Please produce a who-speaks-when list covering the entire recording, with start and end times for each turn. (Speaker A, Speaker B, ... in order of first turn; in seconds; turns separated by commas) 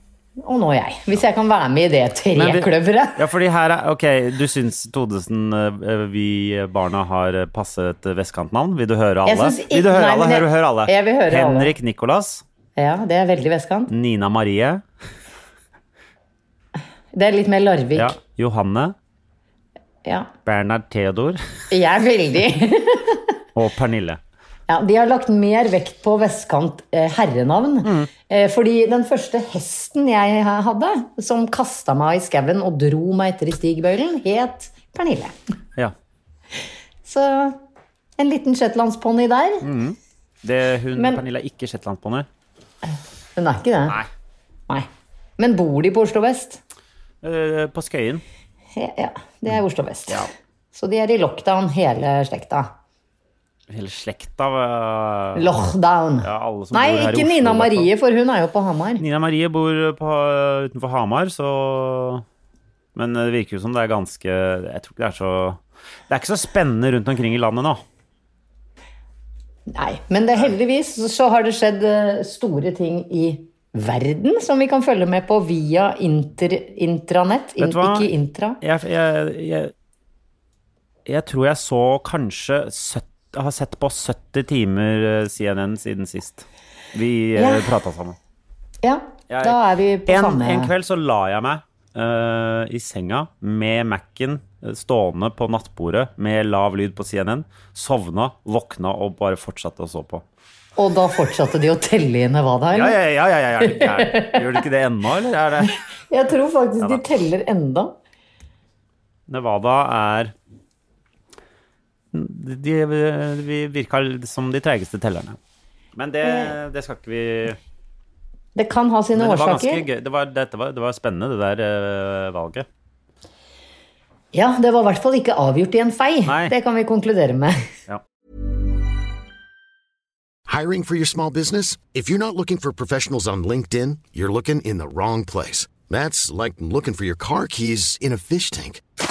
Speaker A: 0.4-3.2, Speaker B: 2.3-12.4, Speaker A: 9.2-11.7, Speaker A: 12.8-13.9, Speaker B: 13.9-14.8, Speaker A: 17.1-18.1, Speaker B: 17.9-18.9, Speaker A: 20.0-20.3, Speaker B: 20.4-21.4, Speaker A: 21.7-23.3, Speaker B: 23.6-24.2, Speaker A: 24.7-35.4, Speaker B: 27.8-28.1, Speaker A: 37.0-37.6, Speaker A: 38.2-39.6, Speaker B: 39.6-42.3, Speaker A: 41.0-41.2, Speaker A: 42.9-44.0, Speaker A: 45.4-46.6, Speaker B: 47.2-48.2, Speaker A: 48.8-52.7, Speaker B: 53.7-55.5, Speaker A: 55.3-59.0, Speaker B: 56.2-57.9, Speaker B: 59.0-62.2, Speaker B: 62.9-67.8, Speaker A: 69.7-78.6, Speaker B: 77.6-78.1, Speaker B: 78.6-79.7, Speaker B: 81.0-88.2, Speaker A: 87.3-87.7, Speaker A: 88.8-90.7, Speaker B: 89.3-100.2, Speaker A: 100.8-103.0, Speaker B: 102.7-105.7, Speaker A: 103.6-104.4, Speaker A: 106.1-107.9, Speaker B: 109.3-110.3, Speaker B: 112.1-115.4, Speaker B: 115.9-117.6, Speaker A: 116.2-116.5, Speaker A: 118.5-119.8, Speaker B: 119.1-122.7, Speaker A: 124.3-127.6, Speaker B: 126.3-126.5, Speaker C: 130.5-138.8